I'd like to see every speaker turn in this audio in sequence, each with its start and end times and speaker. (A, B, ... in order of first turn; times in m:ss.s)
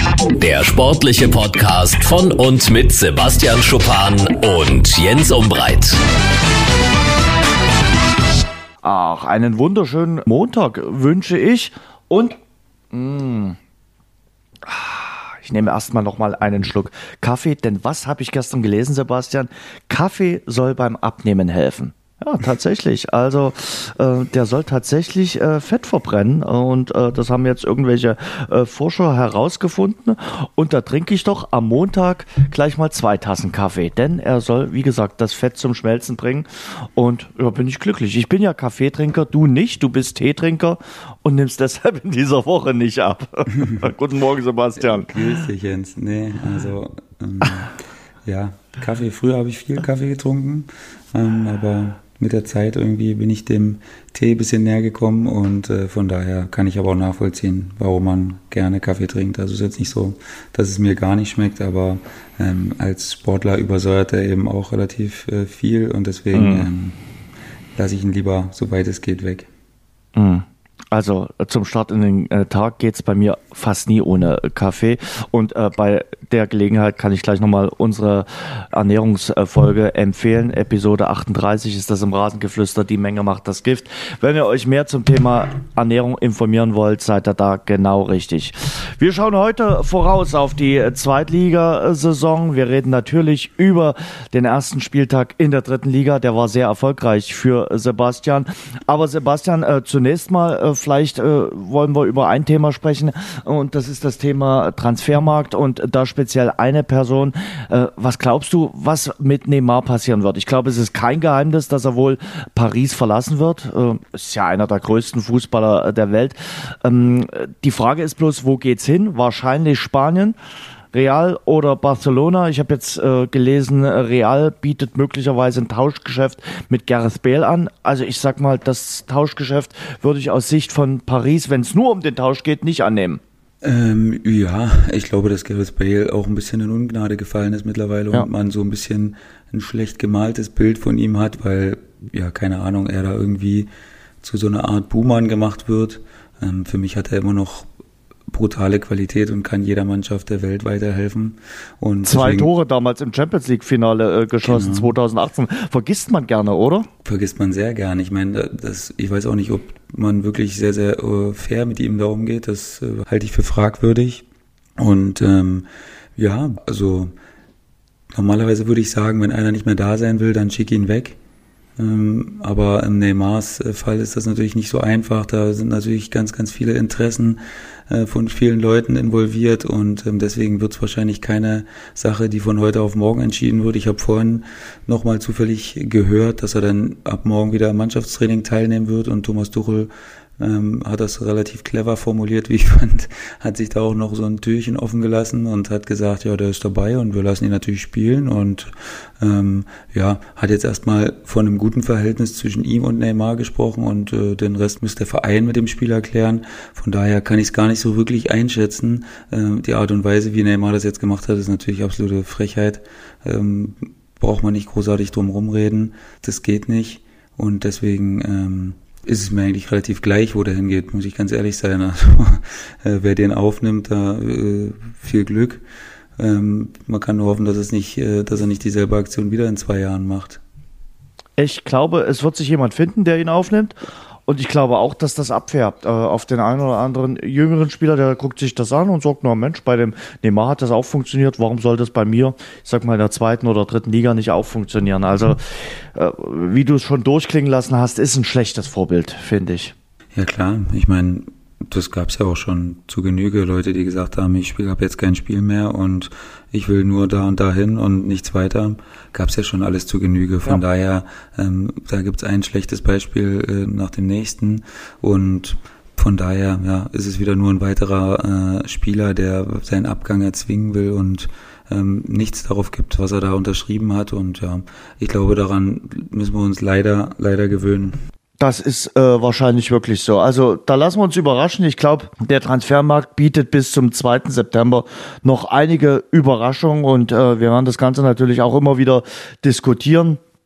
0:00.3-0:06.0 A
0:08.8-0:12.4 B
0:12.9-0:13.6 B
0:14.6-0:45.2 B
0:44.8-1:07.0 C
1:06.3-1:06.7 B
1:07.8-1:09.5 C
1:10.2-2:00.4 B
2:00.9-2:13.2 B
2:13.6-2:23.7 C
2:24.2-2:27.7 C
2:28.3-2:32.5 C
2:32.0-2:36.9 B
2:34.4-2:34.9 C
2:37.0-2:44.2 C
2:44.8-2:47.1 C
2:48.1-2:51.2 C
2:51.8-3:45.6 C
3:46.2-3:50.4 C
3:51.4-3:53.8 B
3:54.3-4:09.7 B
4:10.1-4:38.0 C
4:38.4-4:50.2 B